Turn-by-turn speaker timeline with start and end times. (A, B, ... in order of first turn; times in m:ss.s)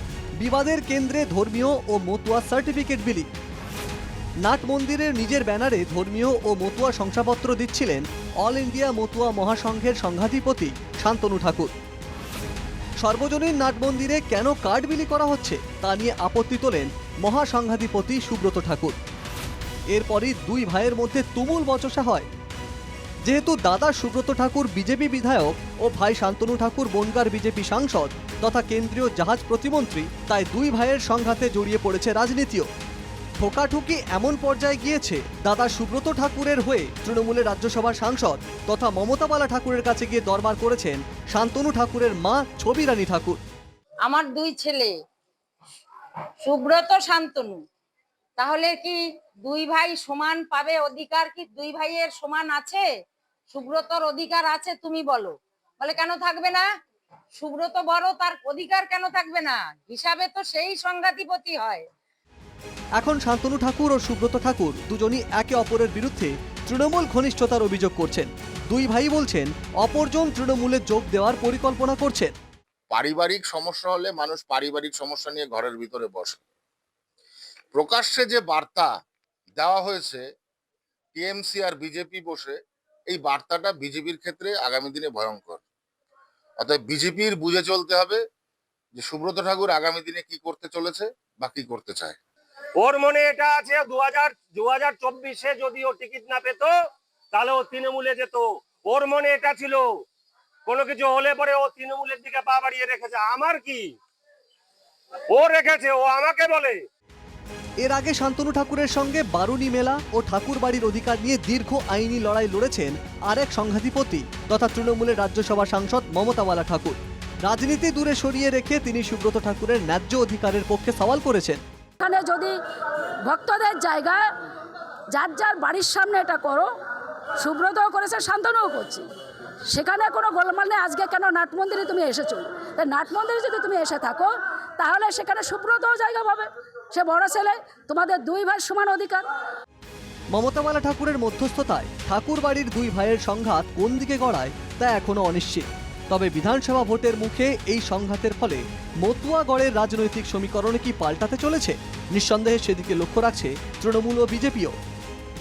0:00.4-0:03.3 A
0:04.4-0:11.7 A
0:13.0-0:19.0 A
0:19.9-0:22.3 A
0:23.2-0:32.7 A
0:33.4-0:43.4 A
0:44.0-0:44.9 B
0:46.4-0:47.6 B
0:48.4-0:52.8 B
0:53.5-0:56.7 B
0:57.4-1:01.8 B
1:03.0-1:12.3 A
1:12.9-1:16.4 C
1:17.7-1:18.9 C
1:19.6-1:20.2 C
1:21.2-1:22.6 C
1:23.1-1:25.6 C
1:26.6-1:28.2 C
1:29.0-1:32.2 C
1:32.8-1:36.8 D
1:37.3-1:40.0 D
1:40.7-1:44.0 D
1:45.3-1:46.8 D
1:47.8-2:01.6 A
2:02.0-2:02.6 E
2:03.2-2:04.3 E
2:05.1-2:06.7 E
2:07.4-2:09.1 E
2:09.7-2:19.2 E
2:20.3-2:34.8 A